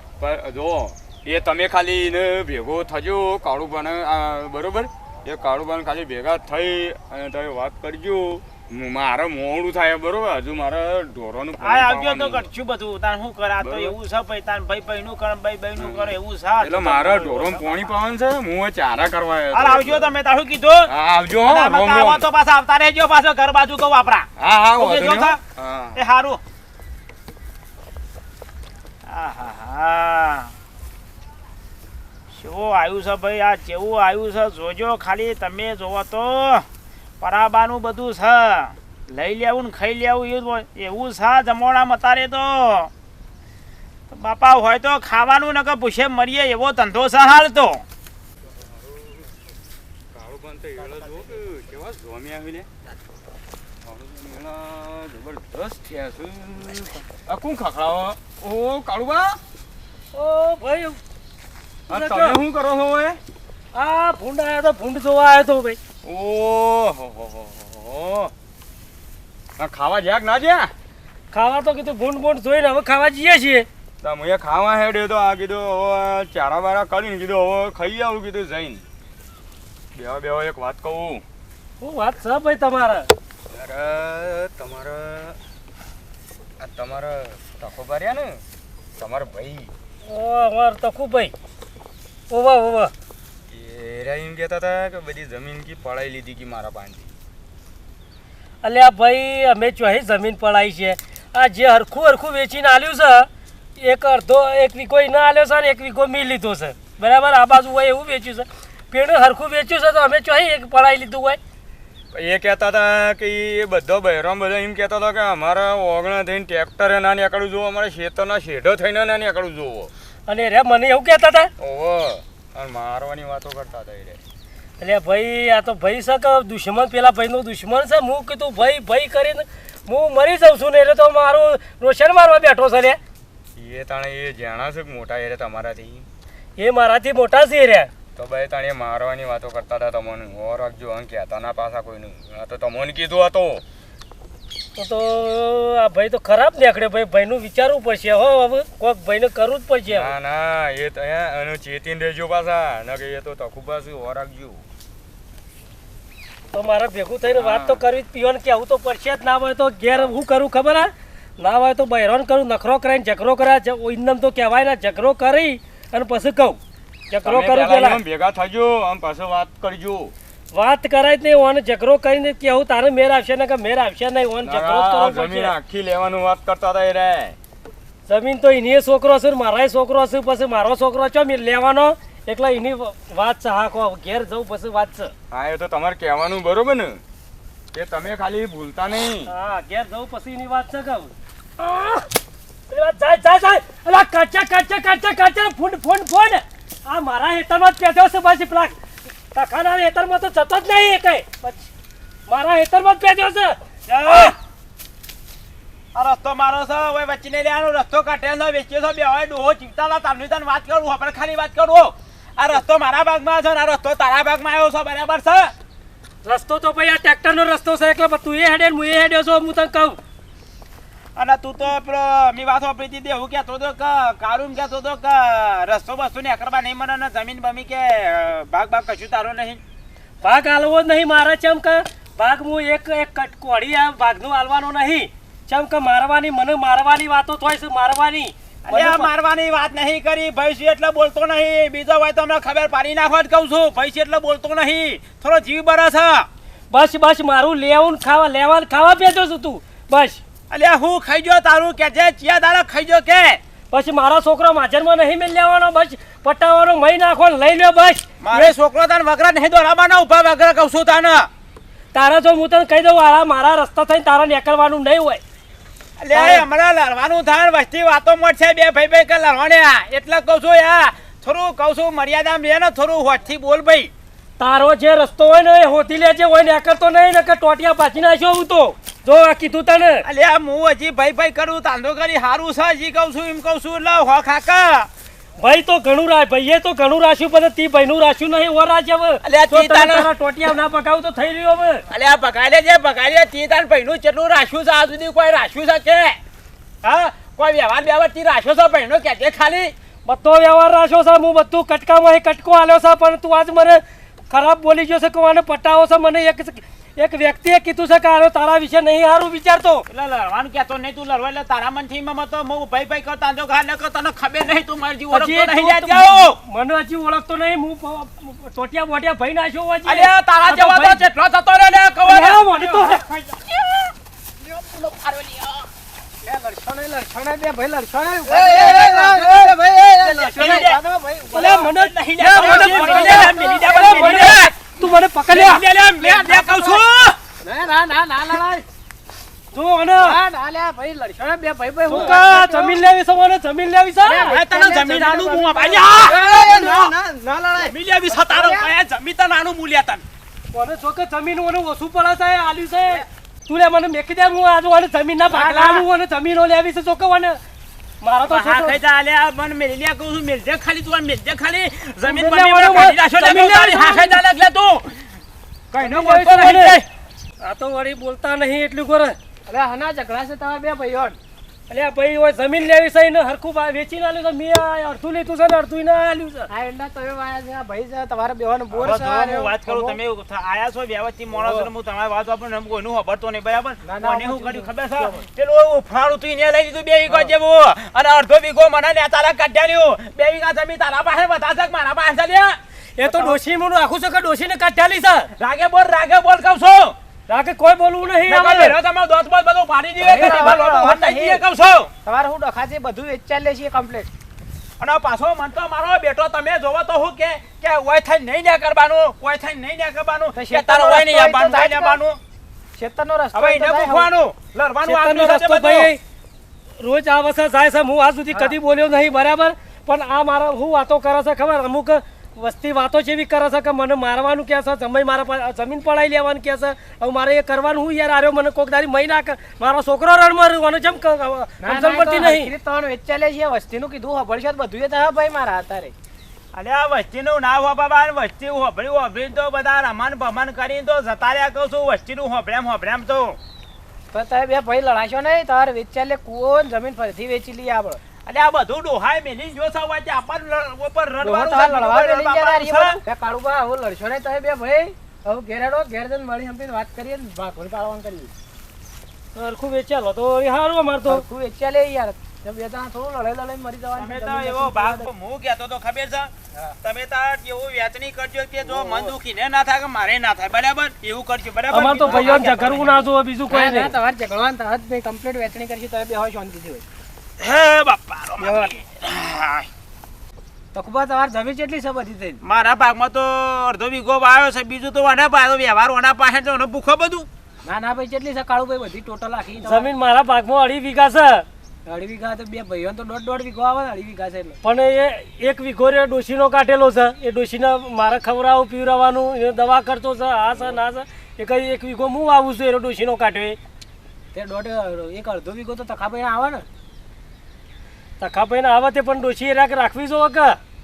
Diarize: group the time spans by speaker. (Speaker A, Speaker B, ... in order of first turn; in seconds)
Speaker A: 0.2-12.5, 13.6-13.9, 15.8-20.1, 20.9-22.3, 24.4-26.0, 48.8-49.3, 50.1-52.7, 53.9-59.4, 61.9-63.2, 66.0-68.3, 69.6-70.7, 74.0-78.8, 80.0-81.2, 83.5-85.4, 86.6-88.4, 89.0-89.7, 93.5-97.1, 112.1-119.9, 121.6-124.2, 133.6-136.1, 138.2-143.6, 149.9-154.7, 157.2-157.8, 167.2-170.1, 174.4-177.4, 185.3-187.0, 187.7-189.3
Speaker B: 11.6-17.9, 19.5-20.9, 21.5-25.4, 25.9-26.4, 29.1-30.5, 32.3-36.7, 37.2-42.9, 44.1-47.8, 203.9-204.3, 205.9-215.5, 221.2-229.6, 238.7-246.3, 250.5-253.4, 258.2-261.3, 266.0-273.9, 280.0-284.9, 289.2-290.1, 291.9-296.2, 296.8-299.7, 309.9-316.4, 319.9-325.7, 328.3-330.8, 331.3-334.6, 335.3-337.2, 344.3-346.9, 347.6-350.0, 358.2-365.0, 365.7-366.8, 378.7-393.4, 395.4-396.9, 398.3-401.9, 404.8-412.2, 413.3-415.9, 436.5-443.4, 448.3-453.0, 464.0-466.3, 466.8-473.0, 477.4-479.7, 482.4-487.3
Speaker C: 60.1-61.0, 61.9-62.4, 63.7-65.8, 71.3-73.7, 81.8-83.1, 90.0-91.3, 92.3-92.9, 98.6-111.4, 120.3-121.5, 124.8-133.0, 136.6-137.9, 144.8-150.1, 156.5-166.6, 167.1-168.0, 170.5-175.6, 178.1-185.1, 189.3-192.1, 192.7-198.8, 199.3-201.7, 202.3-204.3, 216.2-220.0, 230.2-239.1, 246.7-250.2, 253.7-258.5, 261.9-265.2, 266.1-266.4, 274.4-280.0, 285.4-291.8, 300.1-309.8, 315.1-321.0, 322.1-323.1, 331.3-335.6, 339.5-340.2, 341.9-344.4, 350.5-357.4, 358.0-358.8, 362.1-364.1, 365.8-366.9, 367.4-369.2, 371.7-376.5, 393.0-395.3, 397.3-398.8, 400.2-400.5, 414.8-416.0, 416.8-432.5, 459.4-461.2, 471.7-473.9, 489.6-491.5, 494.6-503.6, 508.2-510.6
Speaker D: 326.2-331.7, 332.3-334.4, 336.0-336.8, 337.4-338.6, 340.0-342.8, 344.0-348.7, 355.3-355.9, 369.5-371.2, 376.5-380.0, 381.3-381.7, 383.8-385.2, 400.0-401.4, 402.1-404.1, 410.4-412.0, 412.8-414.1, 431.6-435.9, 444.1-448.0, 451.2-458.3, 461.1-465.1, 468.6-469.1, 472.0-472.5, 473.5-476.9, 478.4-478.7, 480.7-482.4, 487.6-489.9, 491.9-494.6, 504.3-506.6